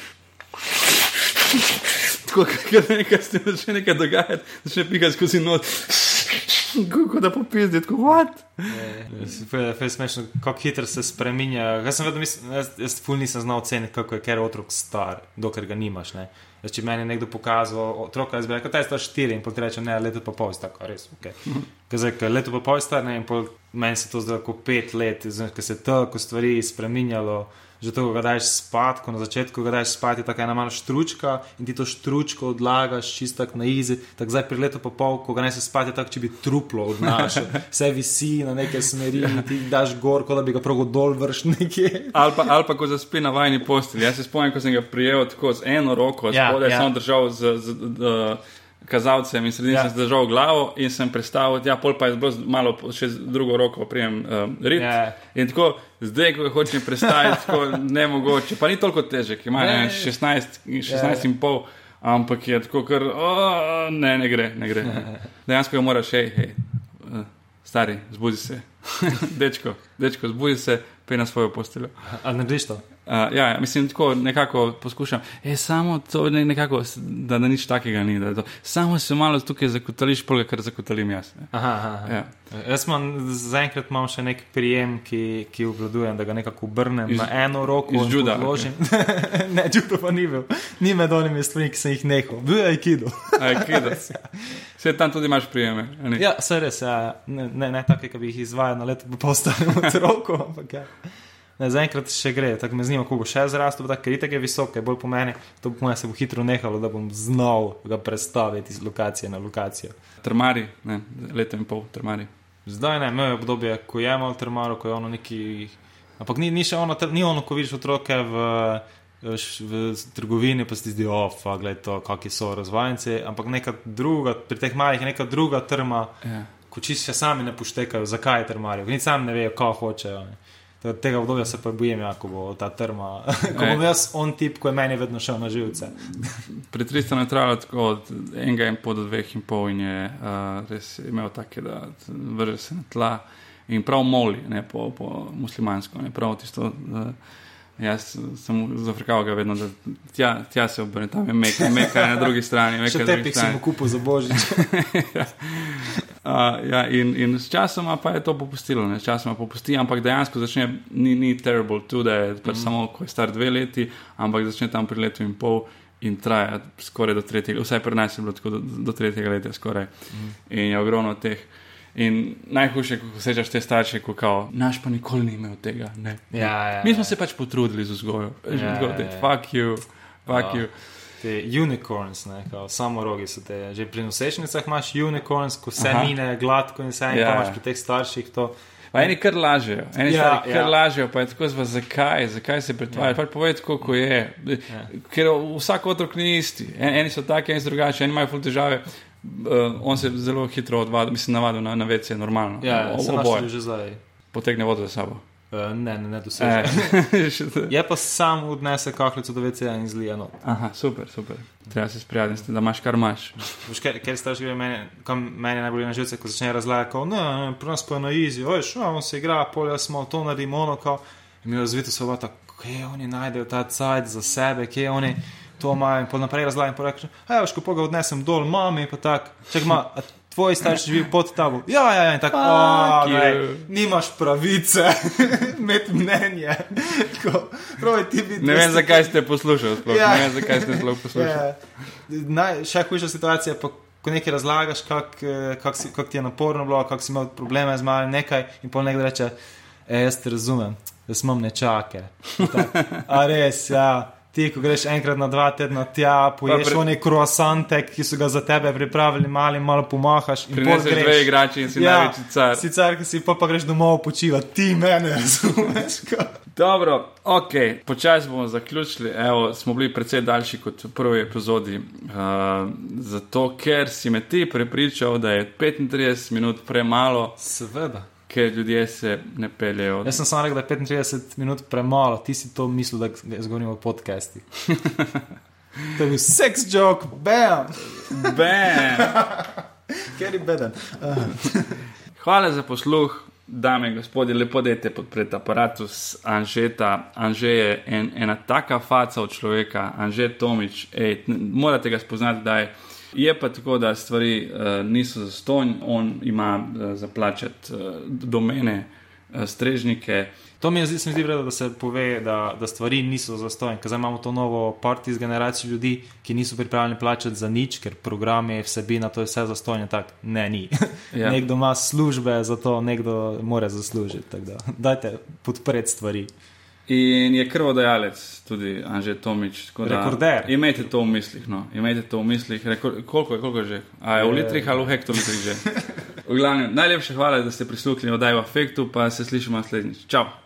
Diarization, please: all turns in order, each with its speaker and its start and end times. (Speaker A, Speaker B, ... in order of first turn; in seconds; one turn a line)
Speaker A: 0.5-9.2
Speaker B: 8.7-42.3
Speaker A: 37.1-37.4
Speaker A: 39.1-39.5
Speaker A: 42.1-71.9
Speaker B: 46.3-46.9
Speaker B: 54.7-55.2
Speaker B: 59.6-60.1
Speaker B: 60.9-61.3
Speaker B: 72.0-72.8
Speaker A: 73.0-81.5
Speaker B: 81.5-94.6
Speaker A: 82.0-82.3
Speaker A: 87.1-88.7
Speaker A: 93.4-94.0
Speaker A: 94.8-96.2
Speaker B: 96.2-101.0
Speaker B: 101.6-109.9
Speaker A: 110.2-112.3
Speaker B: 112.7-126.1
Speaker A: 126.2-126.5
Speaker B: 126.7-136.4
Speaker A: 133.5-133.8
Speaker A: 136.6-147.2
Speaker A: 147.8-153.6
Speaker B: 151.6-152.1
Speaker B: 152.8-154.7
Speaker A: 154.3-180.7
Speaker B: 170.1-170.3
Speaker B: 176.3-177.1
Speaker B: 178.5-179.3
Speaker B: 180.3-180.6
Speaker B: 181.2-189.1
Speaker A: 185.8-186.1
Speaker A: 187.1-187.6
Speaker A: 188.9-203.5
Speaker B: 190.0-190.7
Speaker B: 202.6-204.0
Speaker A: 204.3-205.2
Speaker B: 205.5-207.0
Speaker A: 206.4-207.7
Speaker B: 207.7-210.4
Speaker A: 210.4-213.5
Speaker B: 213.6-239.1
Speaker A: 232.3-233.7
Speaker A: 238.4-241.4
Speaker B: 239.8-249.3
Speaker B: 249.9-266.4
Speaker A: 252.4-253.0
Speaker A: 256.4-256.9
Speaker A: 260.5-262.6
Speaker A: 266.5-277.4
Speaker B: 277.4-278.1
Speaker A: 278.3-280.2
Speaker B: 280.0-284.4
Speaker A: 284.7-285.2
Speaker B: 285.9-291.9
Speaker A: 287.8-289.2
Speaker A: 292.1-310.3
Speaker B: 310.6-326.3
Speaker A: 321.1-321.4
Speaker A: 326.9-340.3
Speaker B: 329.8-330.5
Speaker B: 334.1-334.9